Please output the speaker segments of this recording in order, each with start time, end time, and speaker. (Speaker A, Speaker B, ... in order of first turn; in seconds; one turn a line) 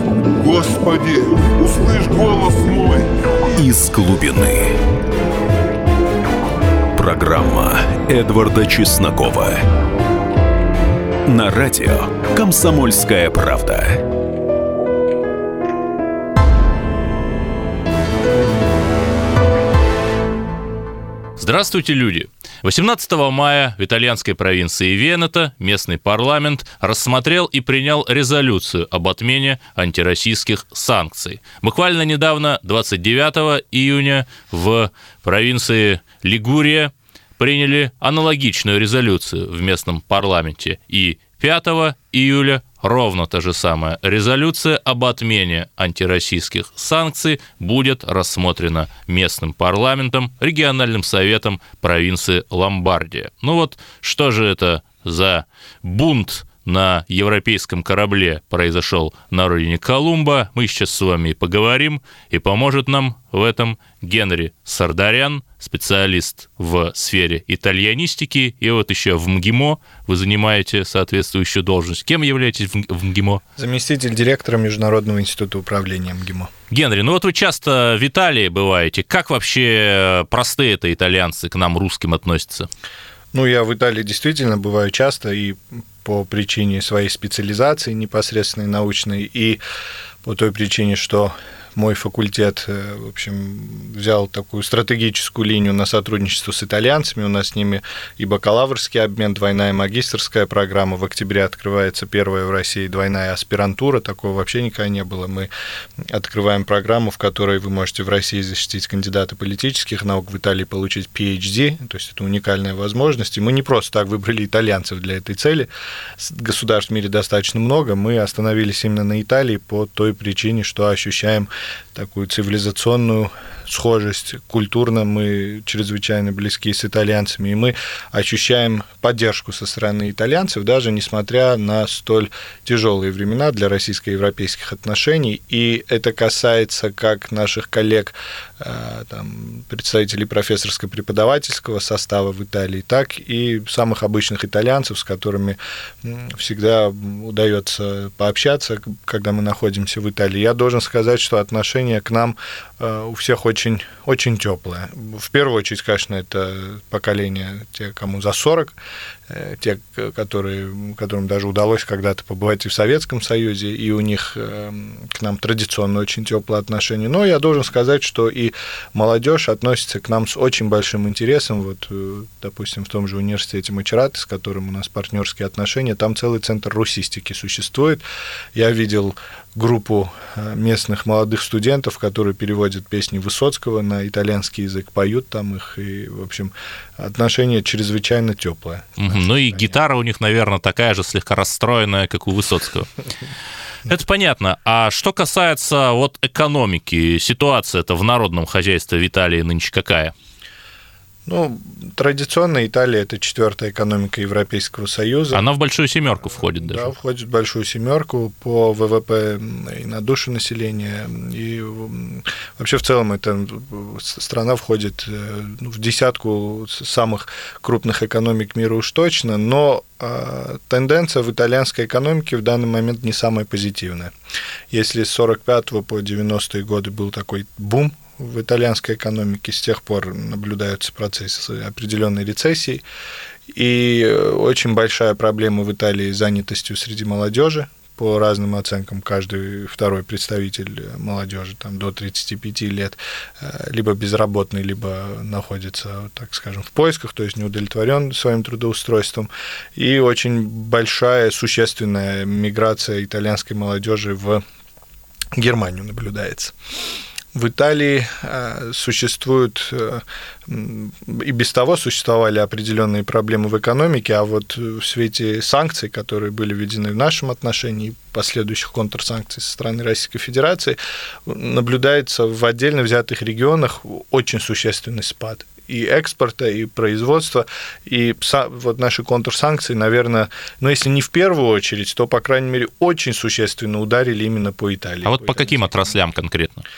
Speaker A: 0.4-3.6
Speaker B: 3.5-4.8
Speaker B: 7.0-9.6
Speaker B: 11.2-14.0
Speaker C: 21.4-73.4
Speaker D: 73.6-76.5
Speaker C: 76.7-82.7
Speaker D: 83.3-89.6
Speaker D: 90.2-105.5
Speaker D: 106.1-158.8
Speaker D: 159.3-189.7
Speaker C: 189.0-192.9
Speaker C: 193.9-200.1
Speaker D: 201.2-205.4
Speaker C: 205.3-206.9
Speaker D: 206.2-224.1
Speaker D: 224.7-232.8
Speaker D: 233.5-254.4
Speaker D: 255.3-256.5
Speaker D: 257.3-285.9
Speaker C: 285.0-286.6